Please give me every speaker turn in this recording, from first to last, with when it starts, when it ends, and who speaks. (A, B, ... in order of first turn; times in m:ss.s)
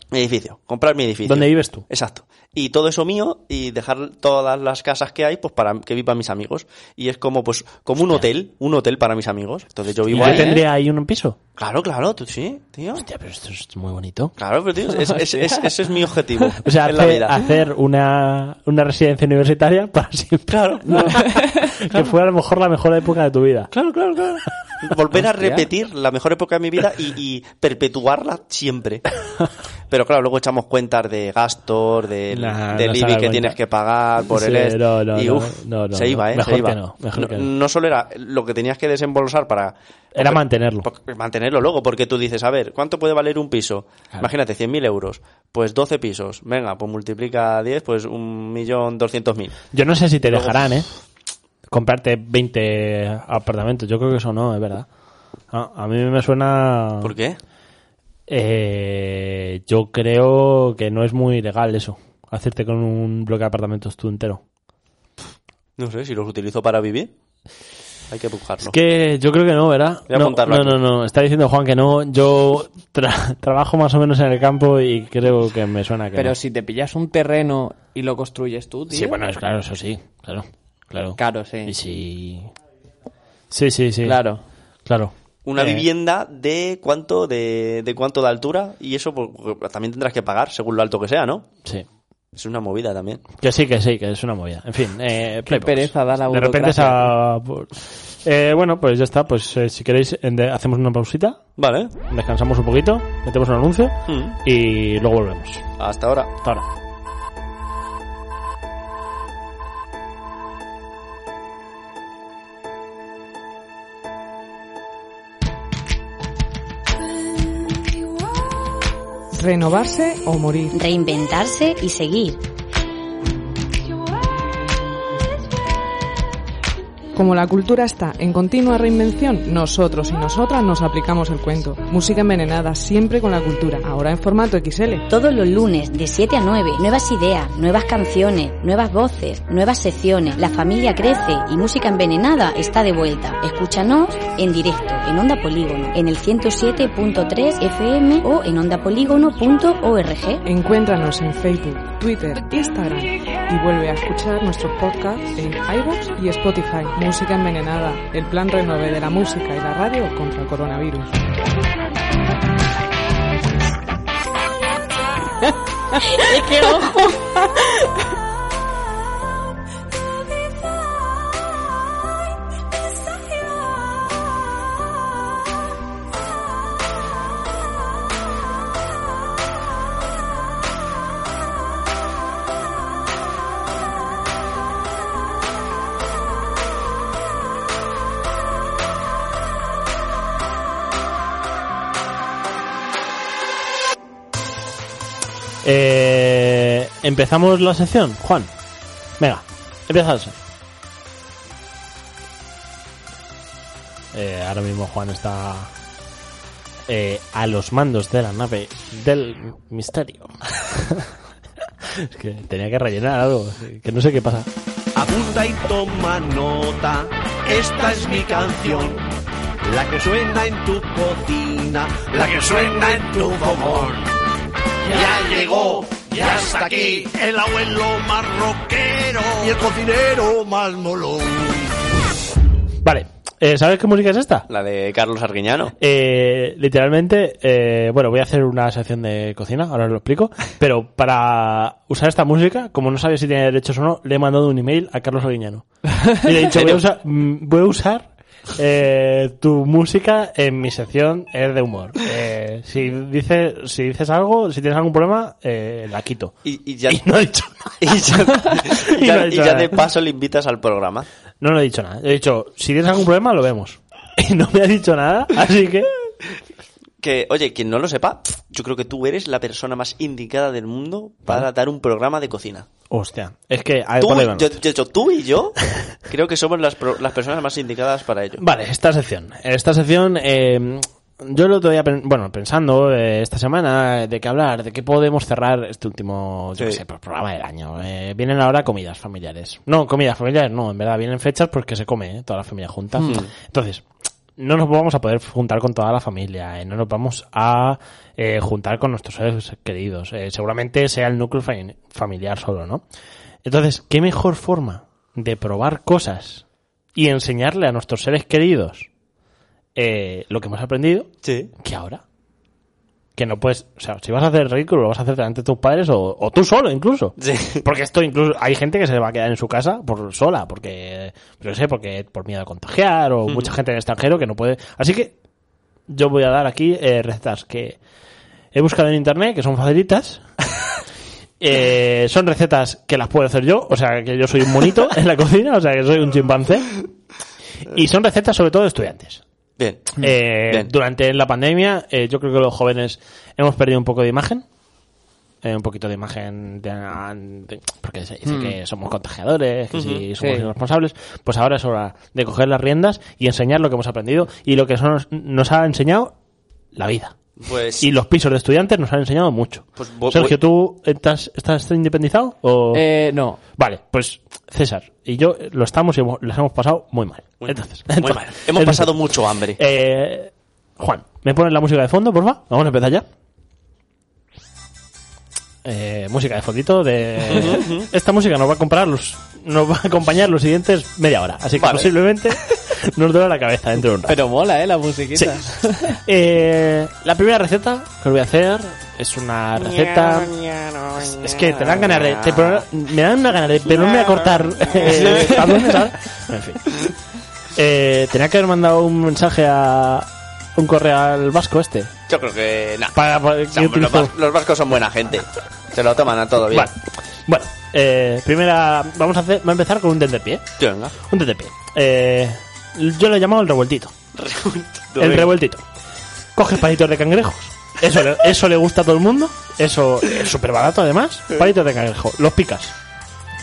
0:00.1-0:10.6 A
0:01.2-0:01.8 B
0:10.1-0:11.4 B
0:10.1-0:10.6 C
0:11.6-0:13.0 A
0:12.9-0:14.3 B
0:14.4-0:17.4 A
0:15.2-0:15.6 C
0:16.6-0:23.7 B
0:20.5-0:21.3 A
0:20.9-0:21.5 C
0:23.7-0:29.0 A
0:25.4-0:25.7 C
0:29.9-0:49.6 A
0:32.3-0:33.6 B
0:34.3-0:37.5 B
0:40.1-0:40.9 B
0:49.7-0:50.9 B
0:50.2-0:50.8 A
0:51.7-0:54.9 B
0:55.5-0:57.1 B
0:57.0-0:57.4 A
0:58.3-1:04.4 B
1:05.8-1:07.1 A
1:08.1-1:08.8 A
1:08.6-1:16.3 B
1:10.1-1:10.8 A
1:16.2-1:19.2 C
1:18.9-1:22.5 B
1:21.2-1:21.7 C
1:23.5-1:24.2 B
1:24.0-1:24.4 C
1:24.8-1:25.8 B
1:25.4-1:31.4 A
1:32.3-1:33.2 A
1:33.4-1:41.4 B
1:35.5-1:37.1 C
1:41.6-1:41.9 A
1:42.1-1:45.6 B
1:44.1-1:44.4 A
1:45.8-1:46.3 A
1:59.3-2:00.7 D
2:00.7-2:02.4 E
2:07.1-2:15.1 D
2:15.1-2:30.4 E
2:30.4-2:41.2 D
2:46.3-2:47.0 C
3:15.6-3:18.5 B
3:19.2-3:20.4 B
3:24.1-3:25.7 B
3:26.9-3:31.1 B
3:31.8-3:34.5 B
3:34.9-3:39.0 F
3:39.6-3:44.2 F
3:44.8-3:51.7 F
3:52.8-3:54.5 B
3:54.5-3:55.7 A
3:55.8-4:16.3 B
4:06.4-4:06.8 A
4:16.4-4:17.0 A
4:16.9-4:19.8 B
4:17.8-4:21.1 A
4:21.4-4:25.9 B
4:27.0-4:32.7 A
4:32.9-4:34.6 B
4:34.0-4:38.4 A
4:38.4-4:53.8 B
4:53.0-4:53.3 A
4:54.4-5:02.8 B
5:03.4-5:06.4 B
5:06.9-5:08.9 B
5:09.8-5:12.0 B
5:11.2-5:11.5 A
5:13.2-5:25.1 B
5:17.2-5:17.6 A
5:25.9-5:27.8 B
5:28.5-5:30.2 B
5:31.4-5:36.8 B
5:37.6-5:39.2 B
5:39.6-5:40.7 A
5:40.0-5:44.4 B
5:45.4-5:56.1 B
5:48.2-5:48.5 C
5:49.7-5:50.0 A
5:50.2-5:50.5 C
5:56.7-5:57.1 B
5:57.4-5:57.9 A
5:57.8-6:02.8 B
5:59.8-6:00.4 A
6:02.7-6:03.4 C
6:03.6-6:08.9 B
6:07.4-6:09.6 A
6:09.6-6:13.0 B
6:15.6-6:24.2 B
6:17.3-6:17.9 A
6:21.6-6:21.9 A
6:24.1-6:26.0 C
6:25.1-6:30.4 B
6:29.6-6:32.6 A
6:31.0-6:36.7 B
6:33.7-6:35.5 A
6:37.5-6:41.9 B
6:42.1-6:43.0 A
6:42.9-6:44.1 B
6:43.5-6:46.7 A
6:46.5-6:50.4 B
6:50.6-6:50.9 A
6:51.1-6:53.9 B
6:54.1-6:55.3 A
6:55.0-6:55.6 B
6:56.4-7:02.7 B